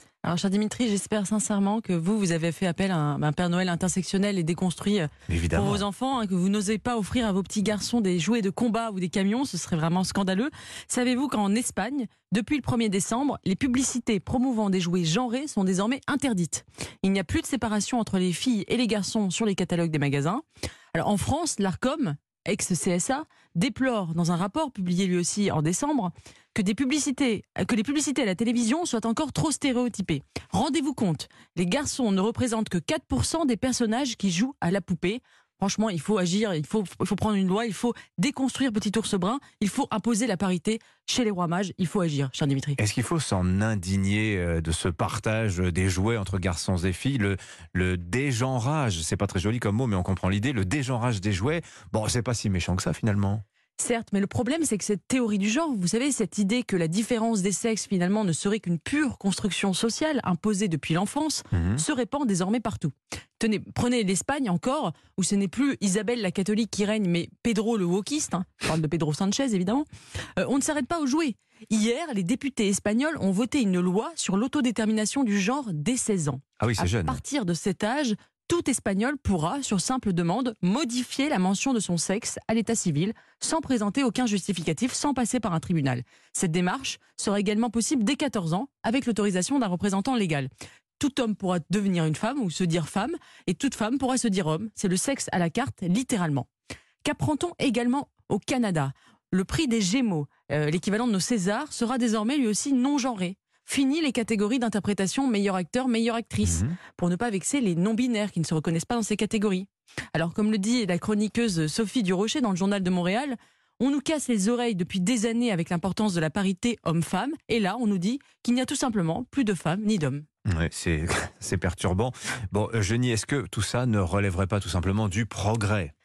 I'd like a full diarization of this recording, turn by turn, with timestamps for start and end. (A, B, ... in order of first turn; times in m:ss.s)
0:00.2-0:42.8 A
0:05.3-0:05.8 B
0:42.8-0:53.4 B
0:53.8-1:36.5 A
1:01.5-1:01.8 B
1:16.6-1:17.2 B
1:37.0-2:00.2 A
1:46.4-1:46.8 B
2:00.5-2:05.9 B